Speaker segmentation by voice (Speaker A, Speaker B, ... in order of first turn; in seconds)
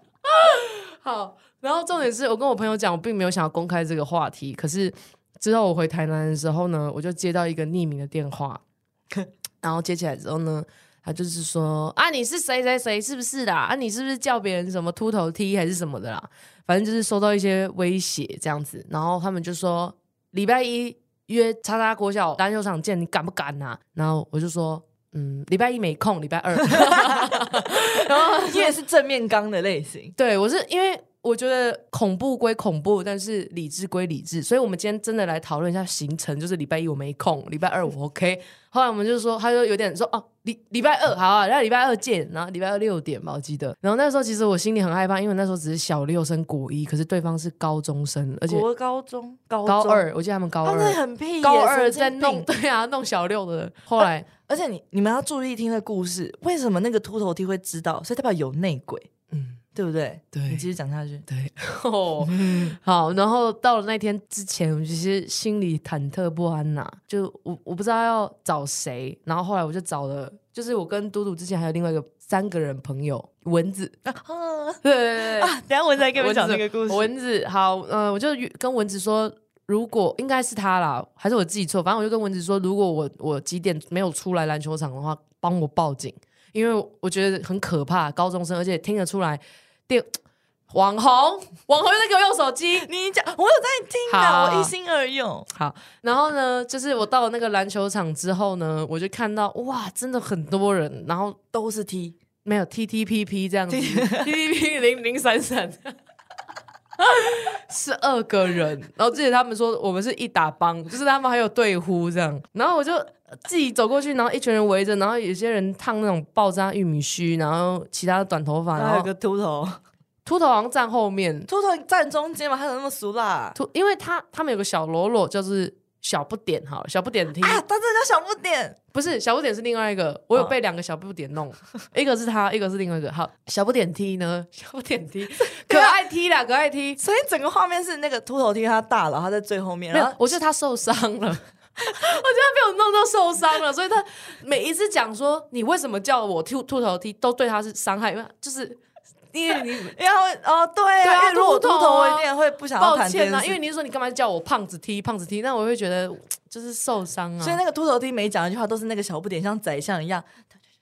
Speaker A: 0.2-8.6, 9.6-28.8, 30.2-48.7, 49.6-54.3, 59.3-59.6, 60.3-60.7, 61.3-74.0, 74.8-75.6, 76.1-90.2, 90.7-92.9, 94.1-94.7, 95.5-101.4, 102.4-106.0, 107.0-119.1, 120.2-121.5, 123.5-127.6, 128.9-137.0, 139.9-148.8, 149.3-150.0, 151.0-157.6
Speaker B: 26.8-30.1, 48.5-50.0, 50.6-52.5, 54.0-59.1, 59.8-61.3, 62.3-62.8, 74.0-77.1, 92.9-95.5, 101.5-102.2, 103.7-104.3, 118.8-119.8, 121.5-123.6, 127.4-128.8, 135.7-136.0, 137.0-140.2, 149.9-153.6, 157.4-160.3